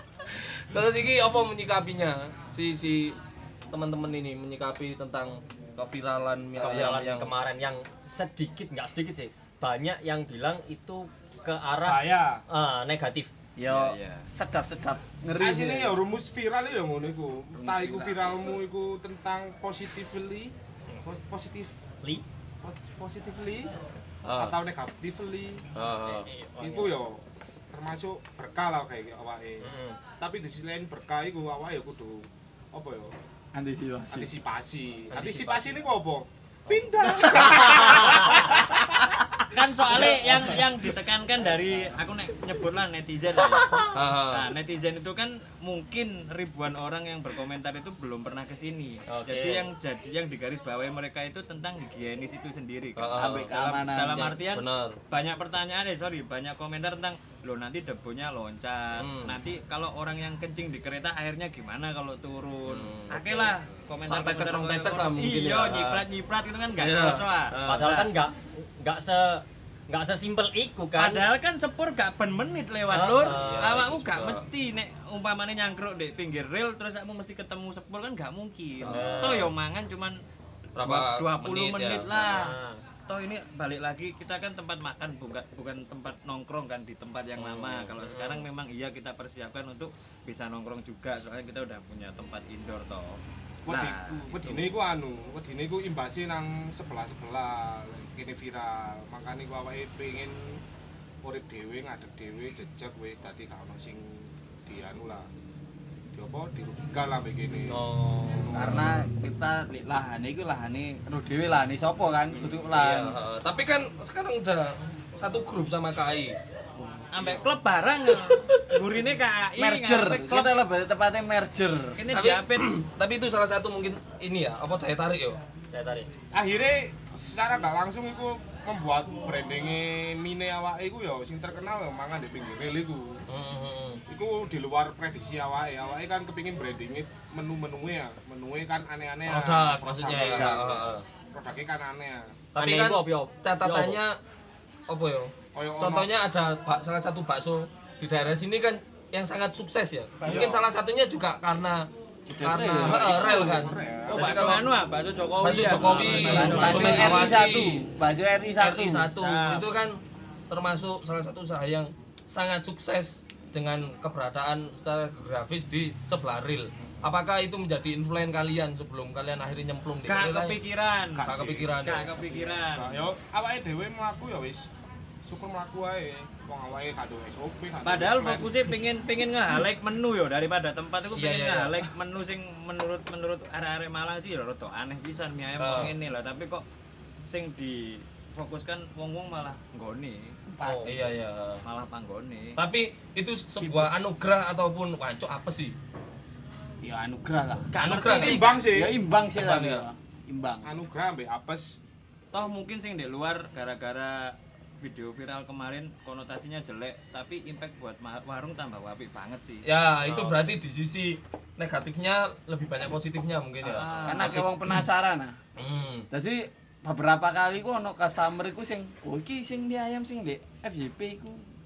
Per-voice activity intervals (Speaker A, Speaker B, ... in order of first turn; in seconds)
Speaker A: 0.3-3.2, 3.7-7.3, 24.2-24.6, 25.8-26.3, 43.9-44.5, 53.0-55.0, 59.0-59.4, 62.7-63.5, 64.1-66.0, 66.8-68.0, 73.3-74.5, 78.8-79.5, 80.8-82.2, 87.4-88.2, 107.9-108.7, 112.6-116.4, 122.1-125.4, 133.3-134.0, 139.3-141.1, 142.6-144.2, 144.9-154.7, 155.4-157.9, 158.6-170.6, 171.2-172.1, 181.2-181.8, 185.6-185.9, 190.6-191.6, 192.6-195.8, 197.8-198.4, 199.3-199.8, 209.6-214.8, 215.6-216.1
Speaker B: 6.6-13.3, 26.1-26.9, 29.6-30.0, 35.1-35.8, 37.4-38.5, 49.1-49.7, 67.7-71.3, 72.9-73.9, 78.9-79.5, 82.1-82.8, 107.7-108.4, 125.7-126.1, 142.6-144.0
Speaker C: 11.8-12.4, 15.4-21.8, 22.6-23.7, 24.3-25.7, 26.6-29.7, 30.2-33.1, 34.1-38.9, 93.7-100.6, 101.2-105.3, 106.1-109.1, 117.2-117.5, 126.3-133.2, 134.1-142.3, 145.5-146.1, 150.2-150.7, 152.6-154.6, 171.2-171.8, 172.3-174.7, 175.2-178.6, 198.0-199.0, 200.6-201.8
Speaker D: 13.6-16.0, 17.6-18.1, 33.5-34.3, 37.1-39.2, 39.9-40.4, 53.2-54.3, 108.5-113.2, 116.8-117.1, 119.6-122.0, 150.2-150.6, 152.3-153.3, 155.9-159.1, 190.5-191.2, 193.6-194.1, 196.8-197.7, 198.7-200.7, 214.1-215.4, 216.1-221.5
Speaker E: 13.7-14.3, 39.5-68.1, 71.0-80.2, 80.8-82.5, 83.1-94.8, 117.1-120.6, 122.0-122.7, 154.1-157.4, 159.1-159.7, 170.1-171.3, 171.8-173.1, 177.8-186.7, 187.3-190.4, 191.6-192.6, 197.7-198.7, 202.3-209.7, 213.6-214.5